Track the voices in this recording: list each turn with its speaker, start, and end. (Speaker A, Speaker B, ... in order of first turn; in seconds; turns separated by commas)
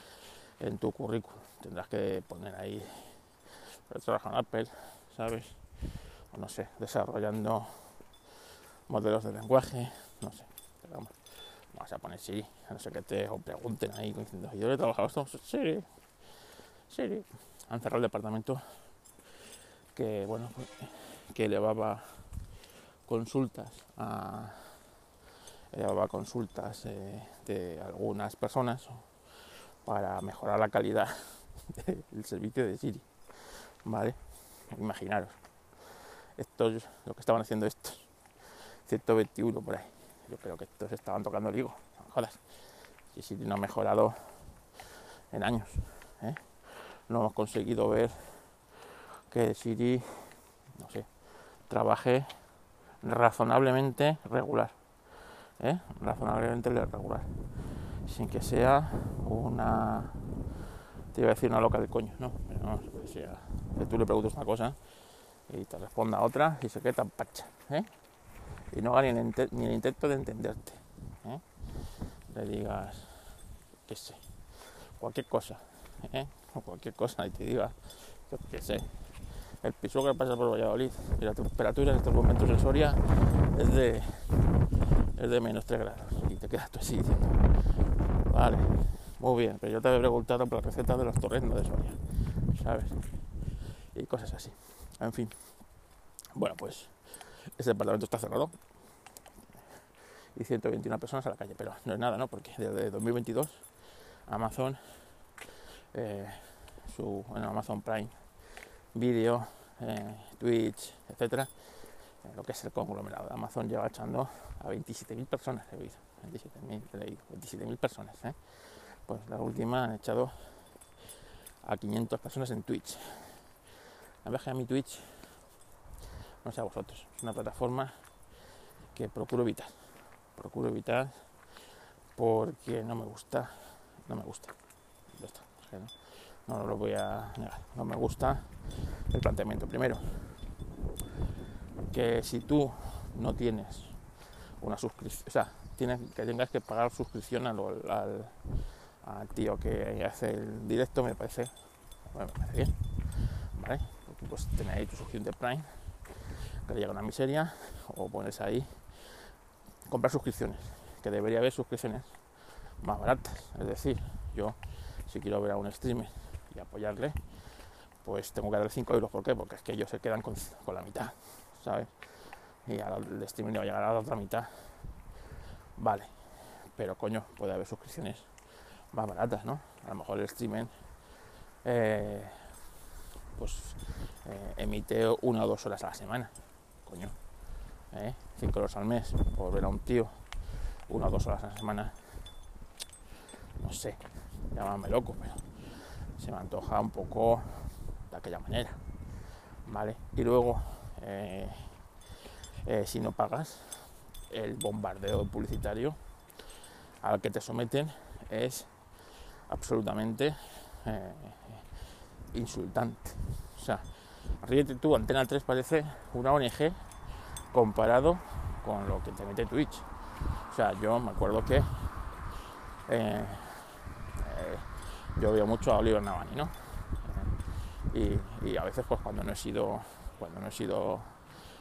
Speaker A: 0.6-5.6, Speaker A: 6.3-8.0, Speaker A: 8.9-15.9, Speaker A: 16.9-18.6, Speaker A: 19.9-22.2, Speaker A: 23.1-24.8, Speaker A: 25.7-29.1, Speaker A: 29.8-35.4, Speaker A: 36.4-38.1, Speaker A: 38.9-42.4, Speaker A: 43.1-44.6, Speaker A: 45.3-48.5, Speaker A: 49.3-51.1, Speaker A: 51.7-52.4, Speaker A: 53.0-54.8, Speaker A: 55.6-57.5, Speaker A: 58.0-60.3, Speaker A: 61.1-64.8, Speaker A: 65.5-67.9, Speaker A: 68.7-71.4, Speaker A: 72.3-73.3, Speaker A: 73.8-74.2, Speaker A: 74.8-84.5, Speaker A: 85.1-87.4, Speaker A: 88.2-93.0, Speaker A: 93.9-95.5, Speaker A: 96.3-98.6, Speaker A: 100.3-103.6, Speaker A: 104.2-105.0, Speaker A: 105.9-108.2, Speaker A: 108.9-111.5, Speaker A: 112.2-120.6, Speaker A: 121.6-123.5, Speaker A: 124.2-125.3, Speaker A: 126.4-128.0, Speaker A: 128.9-131.2, Speaker A: 132.1-134.6, Speaker A: 135.1-140.3, Speaker A: 141.9-144.0, Speaker A: 144.6-148.4, Speaker A: 149.0-151.5, Speaker A: 152.1-158.9, Speaker A: 159.9-162.2, Speaker A: 162.8-167.2, Speaker A: 168.0-171.9, Speaker A: 172.6-174.8, Speaker A: 175.8-178.3, Speaker A: 178.9-180.7, Speaker A: 181.6-182.5, Speaker A: 183.3-187.2, Speaker A: 187.9-190.2, Speaker A: 190.9-192.1, Speaker A: 193.6-195.4, Speaker A: 196.2-198.8, Speaker A: 199.7-201.8, Speaker A: 202.6-206.0, Speaker A: 207.0-208.7, Speaker A: 209.5-211.7, Speaker A: 212.3-213.8, Speaker A: 214.4-216.8, Speaker A: 217.5-219.9, Speaker A: 220.5-221.8, Speaker A: 222.8-227.3, Speaker A: 227.9-231.1